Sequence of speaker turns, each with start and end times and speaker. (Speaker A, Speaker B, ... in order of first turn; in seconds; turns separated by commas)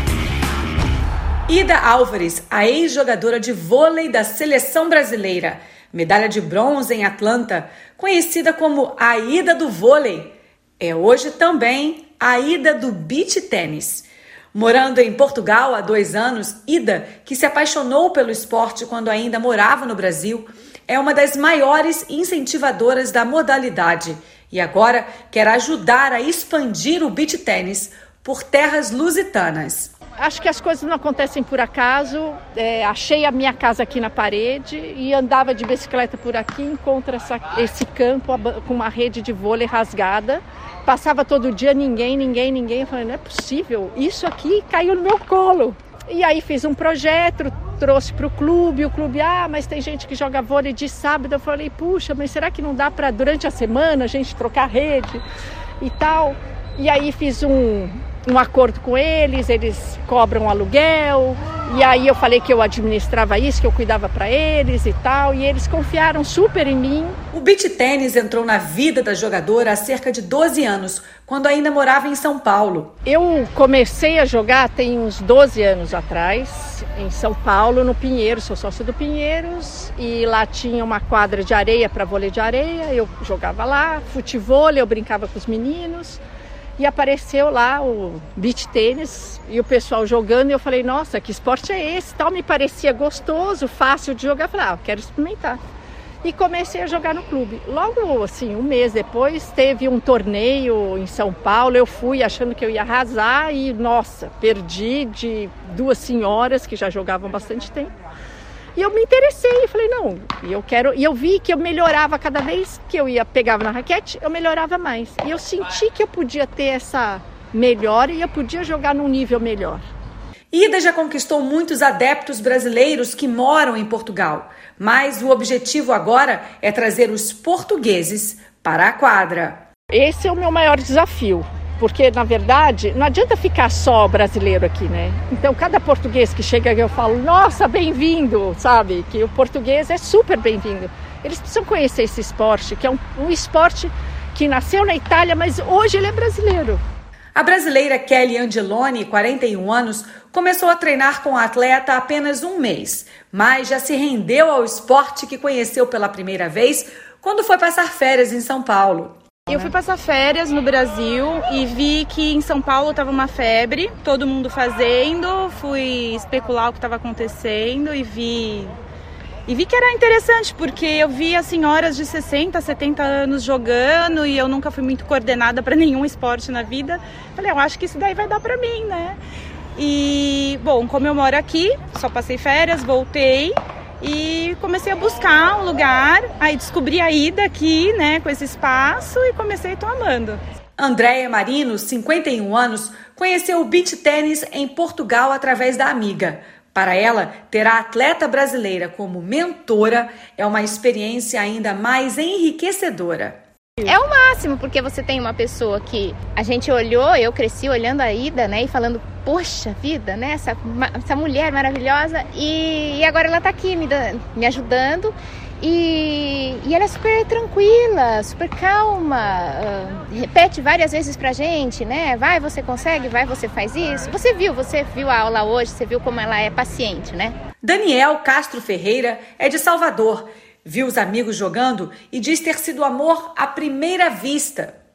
Speaker A: 1.5-29.9, Speaker B: 30.2-55.2, Speaker B: 55.8-67.2, Speaker A: 67.3-72.9, Speaker B: 73.1-86.2, Speaker B: 86.8-95.6, Speaker B: 96.2-107.9, Speaker B: 108.8-119.8, Speaker A: 120.5-129.6, Speaker B: 129.9-146.8, Speaker A: 147.3-159.2, Speaker C: 159.5-168.7, Speaker C: 169.5-179.2, Speaker C: 179.8-190.4, Speaker A: 190.8-203.4, Speaker D: 203.9-227.4, Speaker A: 227.6-234.8